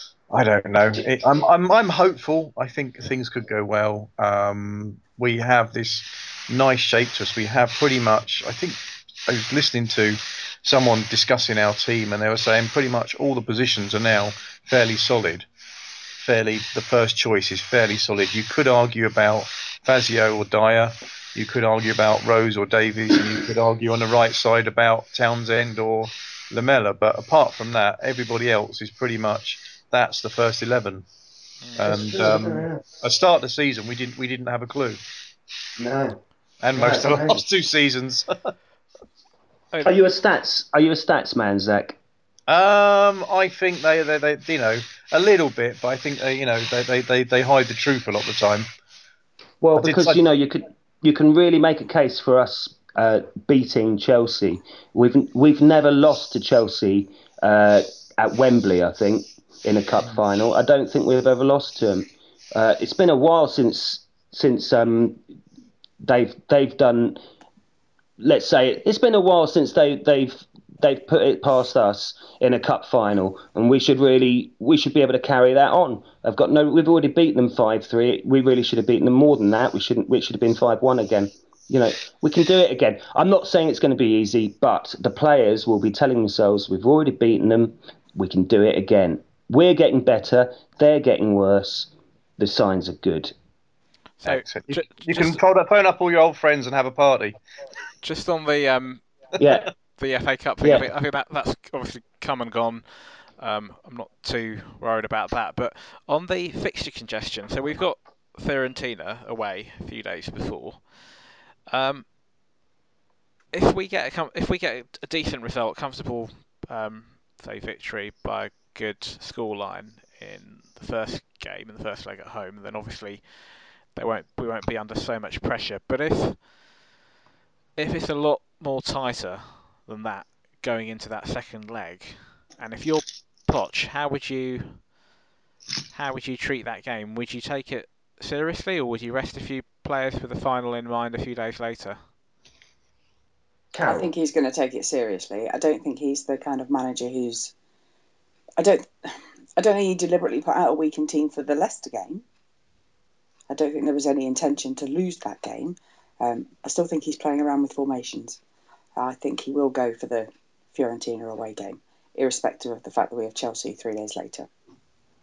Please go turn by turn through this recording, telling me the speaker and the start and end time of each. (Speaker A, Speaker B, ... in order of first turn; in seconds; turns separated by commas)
Speaker A: 0.3-15.5, Speaker A: 16.2-31.1, Speaker B: 31.6-31.9, Speaker A: 31.7-35.0, Speaker C: 31.8-32.8, Speaker C: 35.8-36.2, Speaker A: 36.6-38.5, Speaker C: 36.7-37.4, Speaker C: 39.8-42.0, Speaker A: 42.5-48.7, Speaker C: 49.6-65.2, Speaker A: 49.8-50.2, Speaker C: 66.0-67.2, Speaker C: 68.2-93.3, Speaker B: 94.2-95.4, Speaker A: 94.2-97.4, Speaker B: 98.0-99.1, Speaker C: 99.4-99.7, Speaker B: 100.0-112.0, Speaker C: 100.6-100.9, Speaker B: 113.5-126.5, Speaker B: 127.8-134.9, Speaker B: 135.9-142.1, Speaker C: 143.7-144.1, Speaker D: 143.8-147.5, Speaker D: 148.6-148.9, Speaker D: 149.6-152.2, Speaker D: 153.5-158.4, Speaker D: 159.0-164.5